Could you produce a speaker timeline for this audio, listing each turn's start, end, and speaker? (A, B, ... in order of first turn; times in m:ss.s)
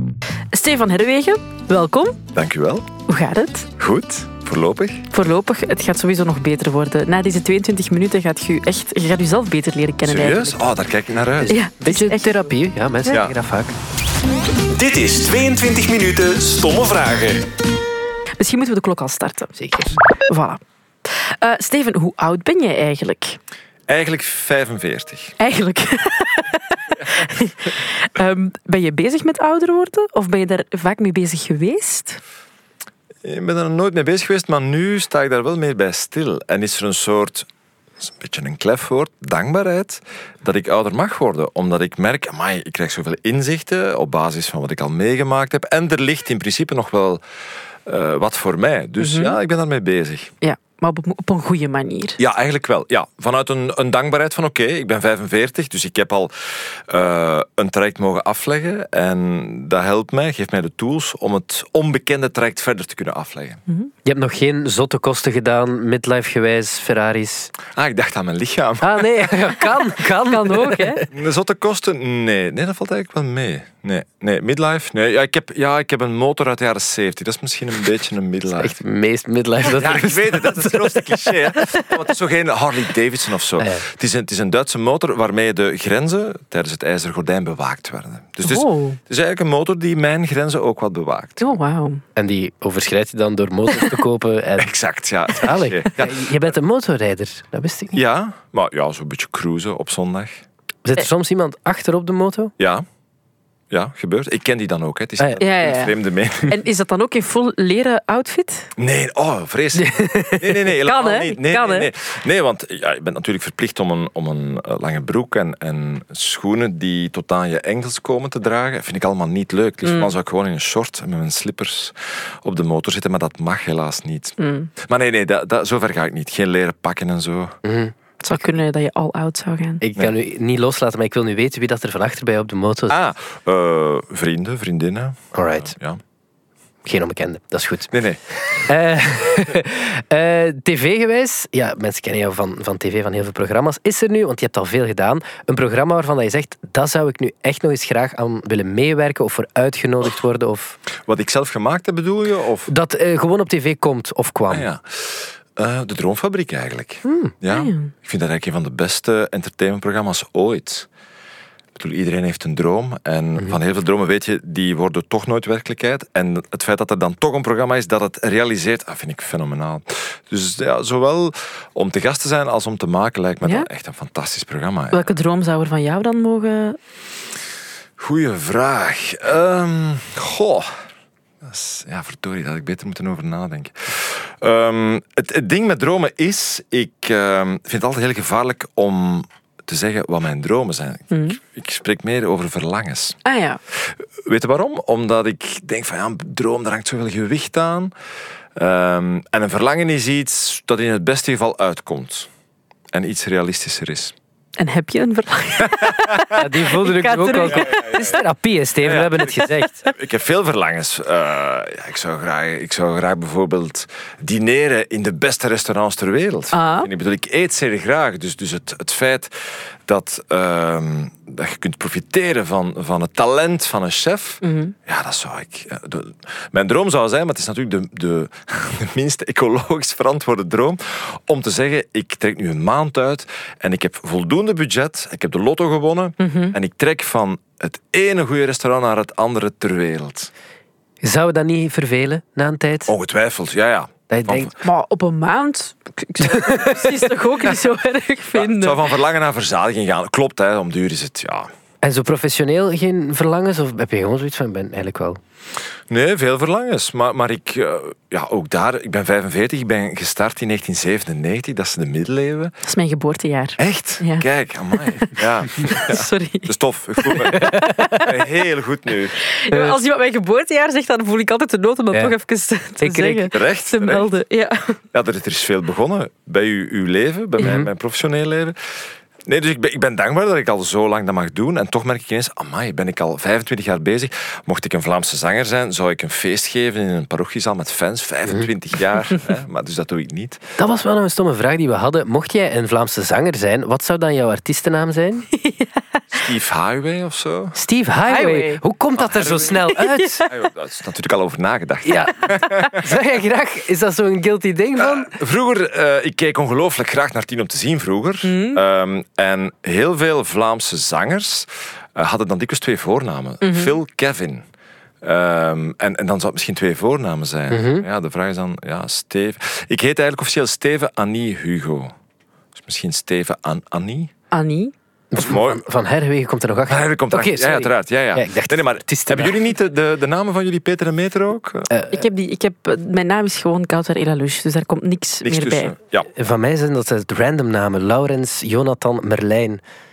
0:00.5-0:02.2 A
0:02.3-0:02.9 B
0:03.1-0:03.7 A
0:03.8-0:05.1 B
0:05.1-0:10.6 A
0:10.0-0:11.6 B
0:11.5-0:13.8 C
0:11.5-0:12.4 A
0:13.1-0:13.4 B
0:14.7-0:17.4 D
0:18.4-0:19.5 A
0:19.6-0:19.9 C
0:20.3-0:23.4 A
0:23.9-0:25.4 B
0:25.4-0:32.2 A
0:33.2-0:37.5 B
0:38.0-0:47.2 B
0:47.8-0:50.3 B
0:49.0-0:49.4 A
0:50.4-0:52.2 A
0:52.2-1:03.6 B
1:04.0-1:07.5 C
1:07.7-1:09.6 B
1:08.8-1:11.0 C
1:10.3-1:11.0 A
1:11.1-1:18.8 B
1:18.6-1:21.4 C
1:19.6-1:31.6 B
1:23.6-1:23.8 C
1:28.4-1:29.0 A
1:31.4-1:32.0 A
1:32.2-1:34.7 C
1:34.6-1:36.3 B
1:35.3-1:38.0 C
1:38.0-1:40.4 B
1:40.8-1:42.5 C
1:42.6-1:42.9 B
1:43.7-1:46.6 B
1:45.4-1:48.7 A
1:48.8-2:07.6 B
1:49.8-1:50.5 C
1:50.8-1:51.9 A
1:59.8-2:00.1 A
2:04.4-2:04.7 A
2:07.6-2:07.9 C
2:08.2-2:09.8 A
2:09.8-2:13.0 C
2:12.9-2:16.0 B
2:15.3-2:15.7 C
2:16.8-2:17.9 C
2:17.9-2:18.6 B
2:18.5-2:30.8 C
2:31.0-2:32.7 B
2:32.7-2:34.7 C
2:34.5-2:40.9 B
2:37.0-2:37.3 C
2:37.5-2:37.9 A
2:41.8-2:55.1 B
2:54.9-2:56.8 A
2:58.0-3:00.7 B
3:01.4-3:13.2 B
3:11.1-3:11.4 A
3:13.2-3:13.6 A
3:13.7-3:17.9 B
3:18.6-3:22.3 B
3:22.9-3:24.1 B
3:24.6-3:28.0 A
3:25.7-3:26.3 B
3:26.3-3:29.8 C
3:27.5-3:28.1 B
3:28.8-4:00.3 B
3:36.5-3:36.9 A
3:44.4-3:44.7 A
3:56.2-3:56.6 A
4:01.0-4:02.9 C
4:02.9-4:04.5 B
4:04.1-4:04.5 C
4:04.6-4:08.8 A
4:06.2-4:06.8 C
4:08.4-4:11.5 B
4:11.8-4:15.2 C
4:15.9-4:22.5 B
4:22.6-4:25.1 A
4:23.6-4:29.2 B
4:25.6-4:28.2 A
4:27.2-4:28.1 C
4:29.2-4:34.8 A
4:29.5-4:29.8 C
4:32.8-4:33.3 C
4:33.3-4:34.1 B
4:34.9-4:50.6 B
4:37.4-4:37.7 C
4:50.6-4:55.3 C
4:55.4-4:55.8 A
4:56.1-4:57.6 B
4:57.6-5:00.3 C
4:58.1-4:58.6 A
4:59.0-4:59.7 B
4:59.7-5:00.3 A
5:00.3-5:02.9 B
5:01.8-5:05.1 C
5:04.8-5:14.4 B
5:08.2-5:08.6 A
5:13.4-5:13.8 A
5:15.0-5:22.0 B
5:17.5-5:17.9 C
5:22.6-5:24.1 B
5:24.3-5:24.7 A
5:25.1-5:29.4 C
5:25.2-5:25.6 B
5:26.7-5:31.7 B
5:31.7-5:32.0 C
5:31.9-5:35.8 A
5:35.2-5:36.1 B
5:36.2-5:39.6 C